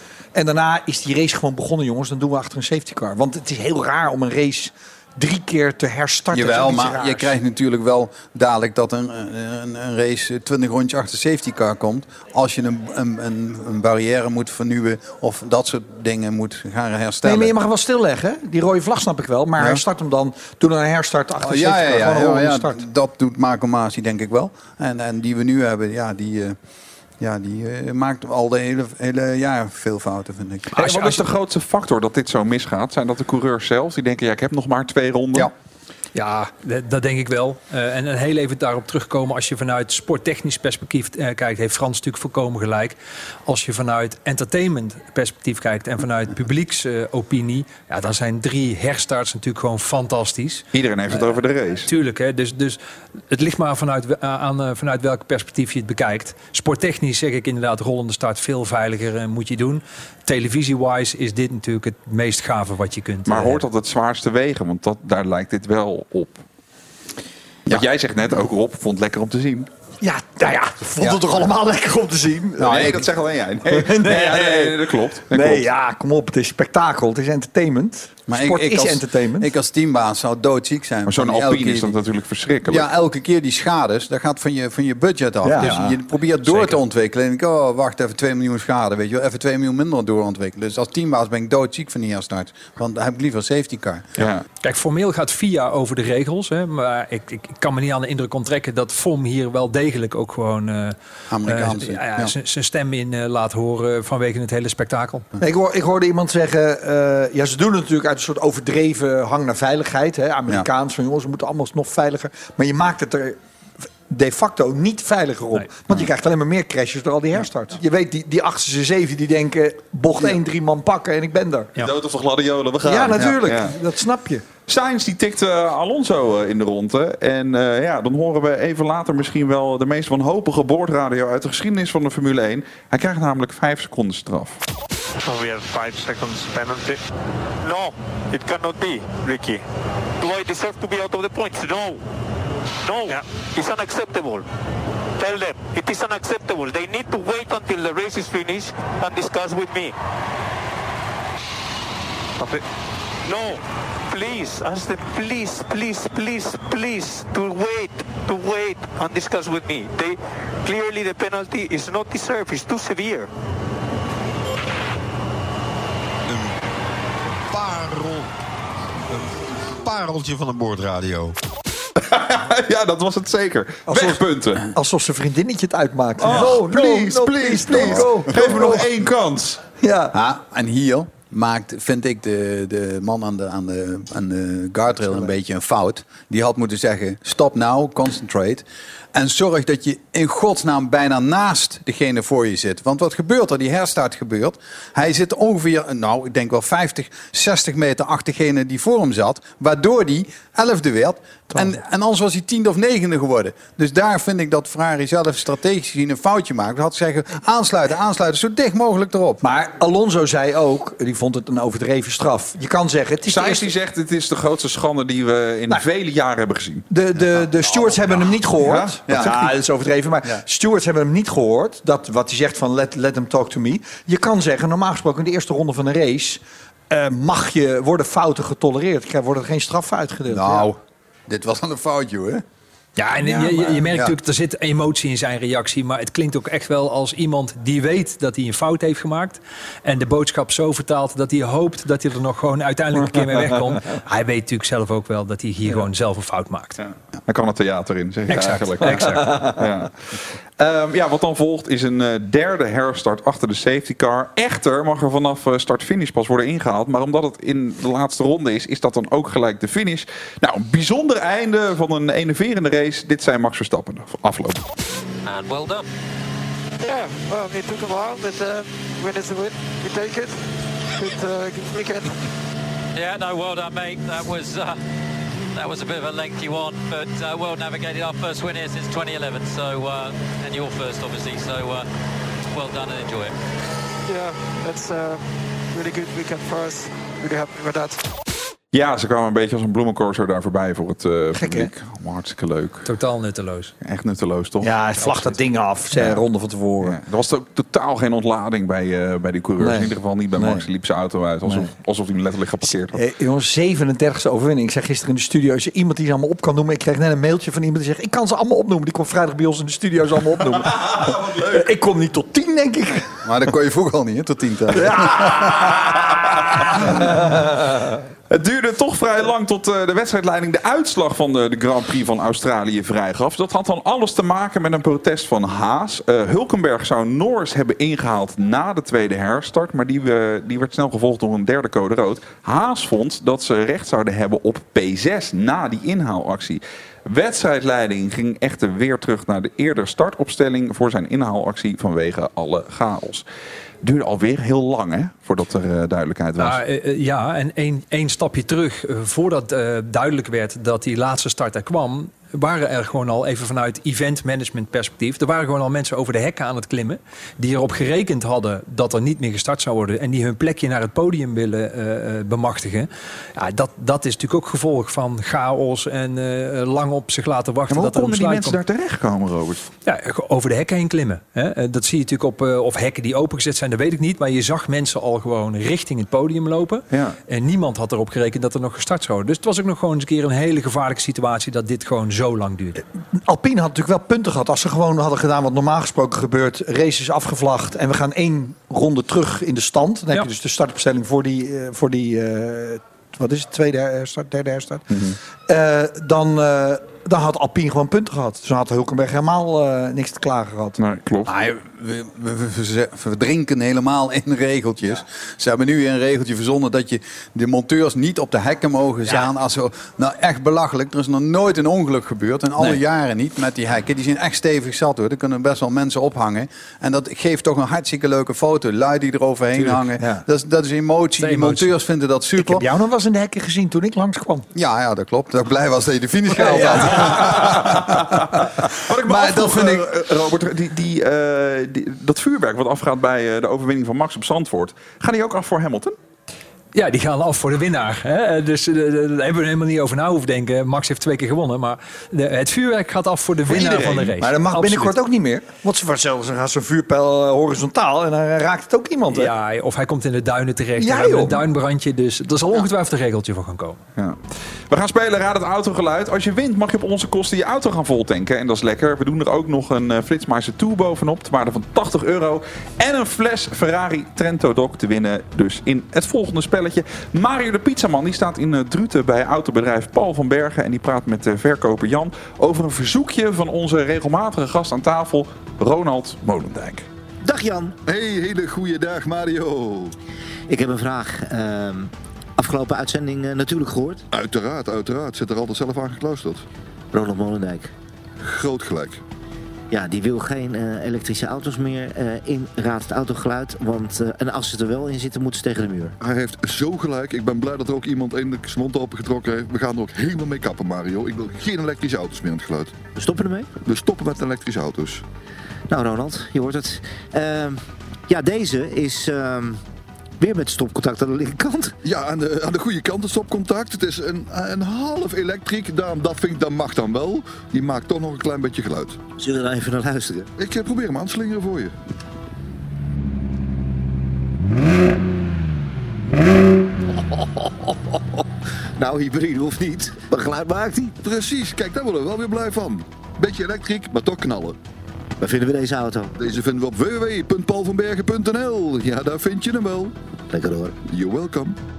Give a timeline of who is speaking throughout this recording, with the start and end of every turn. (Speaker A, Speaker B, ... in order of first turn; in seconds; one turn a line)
Speaker A: 0.3-7.3
Speaker B: 6.3-17.5
Speaker A: 17.2-22.8
Speaker B: 19.6-19.8
Speaker B: 21.4-26.6
Speaker B: 27.2-31.1
Speaker C: 30.8-35.5
Speaker D: 36.1-50.6
Speaker C: 50.7-51.9
Speaker D: 51.9-63.6
Speaker C: 63.3-66.4
Speaker C: 67.7-69.7
Speaker A: 70.0-72.9
Speaker B: 72.6-73.1
Speaker C: 72.6-75.7
Speaker A: 73.7-79.5
Speaker B: 78.3-81.9
Speaker C: 81.1-82.9
Speaker B: 82.7-94.1
Speaker A: 85.4-86.0
Speaker D: 86.5-86.8
Speaker C: 94.2-94.4
Speaker D: 94.6-101.0
Speaker B: 101.3-102.3
Speaker D: 101.5-105.2
Speaker A: 105.4-113.4
Speaker A: 114.1-121.7
Speaker C: 121.8-123.8
Speaker A: 122.8-124.4
Speaker C: 124.7-134.6
Speaker E: 135.2-137.0
Speaker F: 137.6-139.6
Speaker F: 140.2-142.0
Speaker F: 142.9-144.4
Speaker F: 145.2-149.9
Speaker F: 153.3-163.3
Speaker G: 167.5-168.3
Speaker G: 169.8-171.3
Speaker C: 172.0-174.6
Speaker A: 173.9-178.8
Speaker C: 176.2-179.6
Speaker B: 177.7-178.4
Speaker A: 179.8-180.1
Speaker B: 180.1-209.4
Speaker A: 209.4-213.7
Speaker C: 213.3-216.9
Speaker A: 216.9-230.7
Speaker C: 218.6-219.0
Speaker B: 219.1-219.6
Speaker B: 230.3-232.4
Speaker D: 233.0-246.8
Speaker B: 233.2-234.1
Speaker C: 247.3-264.6
Speaker D: 248.3-249.3
Speaker A: 249.0-249.6
Speaker H: 265.2-265.9
Speaker E: 266.8-270.4
Speaker E: 271.0-272.1
Speaker H: 272.9-274.8
Speaker H: 275.6-281.9
Speaker H: 282.5-283.4
Speaker E: 284.1-288.1
Speaker C: 288.7-292.9
Speaker A: 291.4-291.7
Speaker D: 292.9-293.7
Speaker C: 293.8-295.2
Speaker A: 294.6-297.0
Speaker C: 295.9-296.3
Speaker C: 296.8-303.0
Speaker A: 299.6-300.7
Speaker A: 301.5-301.7
Speaker A: 302.9-313.2
Speaker C: 310.6-311.7
Speaker B: 313.2-315.8
Speaker A: 314.8-318.0
Speaker C: 315.2-316.8
Speaker C: 318.3-343.2
Speaker C: 343.8-346.6
Speaker D: 346.4-368.6
Speaker C: 367.7-369.7
Speaker D: 369.9-382.8
Speaker C: 376.9-377.2
Speaker A: 383.1-400.8
Speaker C: 394.9-395.2
Speaker C: 400.8-401.3
Speaker B: 401.3-422.7
Speaker A: 419.6-420.2
Speaker D: 421.2-421.7
Speaker A: 422.4-424.5
Speaker B: 424.5-429.9
Speaker A: 426.3-427.6
Speaker C: 426.8-435.9
Speaker D: 436.7-444.9
Speaker C: 443.5-444.1
Speaker A: 443.6-449.3
Speaker D: 449.1-453.8
Speaker A: 450.8-451.4
Speaker C: 454.0-476.9
Speaker I: 477.2-477.8
Speaker J: 477.9-479.9
Speaker I: 480.5-484.0
Speaker J: 484.1-486.4
Speaker I: 486.9-487.7
Speaker J: 488.2-489.0
Speaker I: 489.7-495.9
Speaker J: 496.0-502.7
Speaker I: 503.0-503.5
Speaker J: 503.6-505.0
Speaker I: 505.7-509.6
Speaker I: 510.2-511.8
Speaker J: 511.8-519.0
Speaker I: 519.2-520.3
Speaker J: 520.4-521.7
Speaker J: 528.8-530.0
Speaker I: 530.0-531.0
Speaker J: 531.0-534.6
Speaker I: 535.2-536.1
Speaker J: 536.2-539.9
Speaker I: 540.3-540.8
Speaker J: 540.9-541.6